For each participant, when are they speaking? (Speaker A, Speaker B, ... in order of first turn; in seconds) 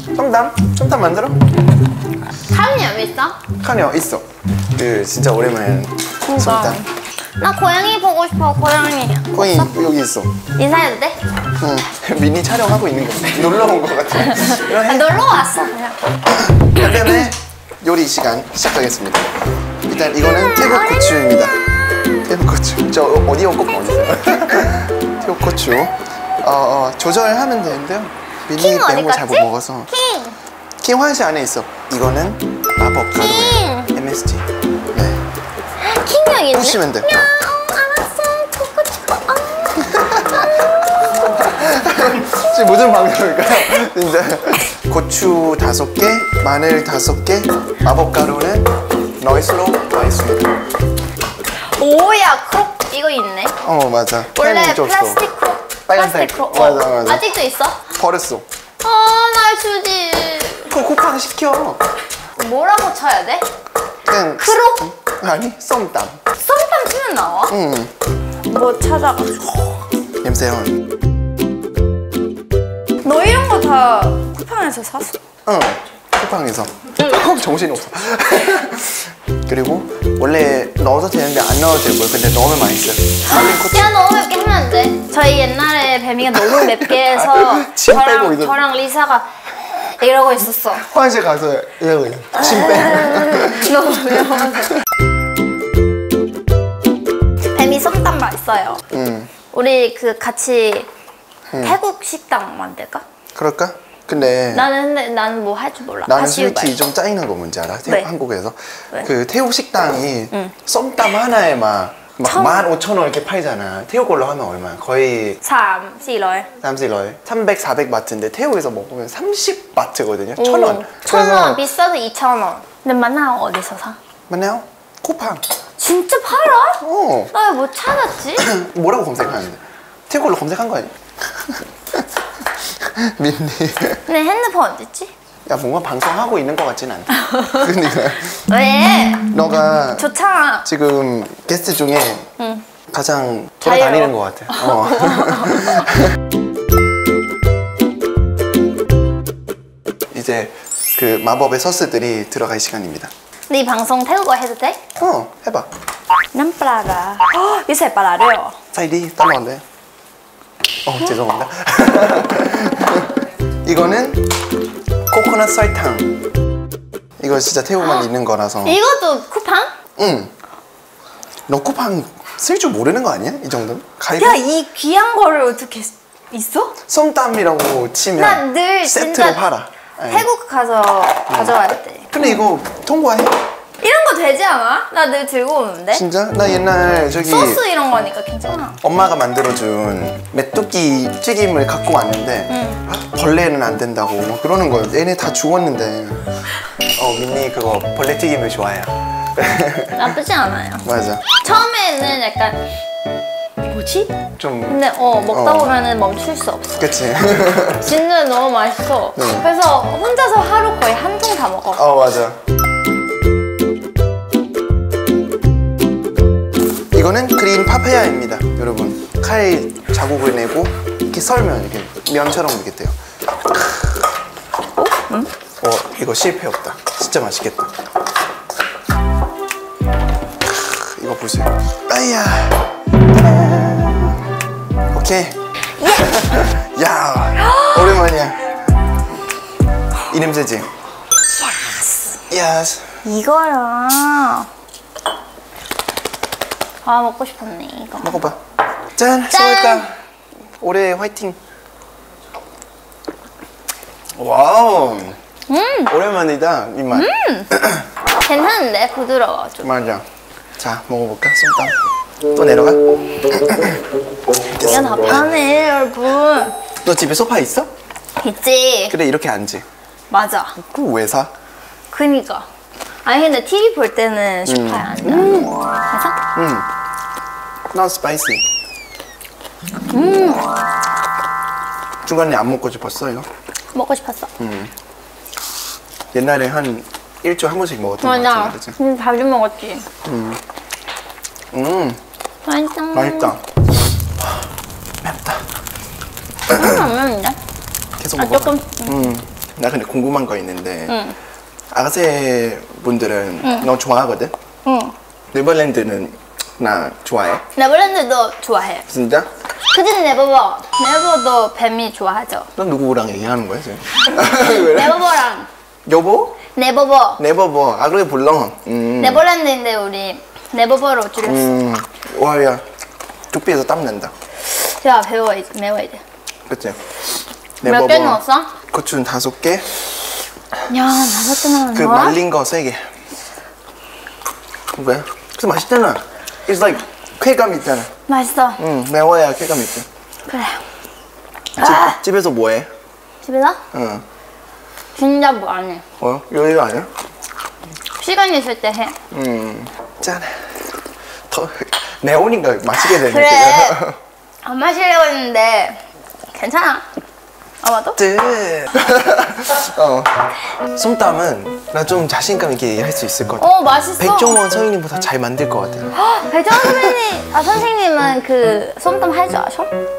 Speaker A: 0.1-1.4, 3.6-6.8, 9.3-10.4, 11.6-15.2, 16.3-19.3, 19.9-21.6, 22.2-29.9, 30.8-35.2, 36.5-37.1, 39.8-50.5, 53.6-55.2, 55.9-57.2, 57.9-58.5, 60.7-61.8, 64.1-66.2, 67.5-67.9, 70.2-70.8, 75.5-83.9, 86.3-88.6, 90.8-93.8, 98.9-99.3, 101.5-101.8, 103.3-104.7, 106.1-115.4, 116.6-121.7, 124.3-125.4, 126.8-127.3, 128.4-132.1, 132.6-134.0, 135.5-138.4, 139.3-140.1, 140.7-142.3, 142.9-146.2, 150.1-153.1, 155.0-155.7, 158.7-159.6, 160.8-164.3, 165.1-166.2, 167.2-168.8, 170.0-170.3, 171.5-174.4, 176.9-180.3, 181.3-181.6, 182.1-183.4, 185.9-187.6, 188.8-196.2, 196.9-200.1, 200.8-201.2, 204.4-205.8, 206.8-208.0, 209.2-209.5, 211.7-212.4, 216.9-222.9, 223.5-223.8, 225.6-227.7, 230.4-234.3, 234.9-238.5, 240.1-240.7, 242.3-243.0, 248.0-248.4, 249.0-250.0, 250.6-251.4, 254.2-255.2, 255.9-257.9, 259.6-260.1, 260.6-261.8, 262.3-263.8, 264.6-265.3, 266.8-267.7, 268.9-269.6, 270.6-271.3, 274.5-275.5, 276.4-276.7, 277.7-278.4, 282.0-283.3, 284.4-284.7, 286.1-288.8, 290.1-290.4, 291.5-292.0, 292.9-293.4, 295.0-295.4, 296.5-296.9, 298.0-301.0, 301.7-304.3, 305.3-307.4, 308.9-309.3, 312.6-315.1, 315.9-316.4, 317.2-319.2, 321.2-322.6, 323.3-324.1, 326.5-326.8, 327.6-329.7, 331.7-332.9, 334.7-337.9, 338.6-339.9, 341.6-342.7, 343.7-344.1, 346.0-346.9, 349.1-350.6, 351.3-354.0, 358.0-365.9, 366.5-367.0
Speaker B: 2.5-3.4, 6.2-9.7, 10.6-11.2, 14.2-16.0, 20.3-21.5, 28.6-30.4, 33.2-33.9, 35.8-39.9, 51.7-53.5, 54.3-57.8, 58.8-60.7, 62.4-63.5, 64.4-64.9, 66.4-67.5, 68.5-69.8, 73.0-75.2, 83.2-90.9, 92.4-94.8, 97.5-98.8, 99.5-100.9, 101.6-103.0, 104.5-106.8, 112.2-112.7, 115.4-116.5, 120.4-124.0, 125.8-128.5, 134.1-135.1, 137.2-139.3, 139.9-140.7, 142.4-142.6, 143.6-145.9, 153.5-154.8, 156.3-158.6, 167.8-168.1, 168.6-169.7, 174.2-176.8, 178.2-179.4, 180.1-182.4, 183.8-186.0, 187.2-188.8, 192.5-192.8, 200.0-200.9, 201.4-202.6, 203.7-206.9, 207.8-211.9, 224.8-225.3, 235.8-236.2, 237.4-237.9, 241.4-242.2, 243.0-244.5, 246.8-248.2, 249.3-249.9, 255.5-255.9, 256.9-257.5, 258.2-259.7, 264.6-266.6, 268.2-269.0, 270.1-270.6, 271.9-272.5, 273.1-276.2, 279.9-280.5, 283.7-284.3, 288.0-289.9, 292.5-293.4, 296.5-297.4, 298.2-299.0, 300.9-301.2, 303.4-303.7, 304.6-304.9, 307.6-308.9, 309.7-312.5, 314.1-315.5, 316.5-317.2, 319.0-321.6, 324.4-326.0, 327.6-328.6, 330.7-332.2, 338.1-338.6, 340.3-340.6, 341.6-342.0, 343.2-343.6, 344.9-345.8, 348.0-349.0, 352.7-353.8, 354.4-355.8, 356.3-356.9, 357.6-358.0, 363.4-364.4, 365.9-369.7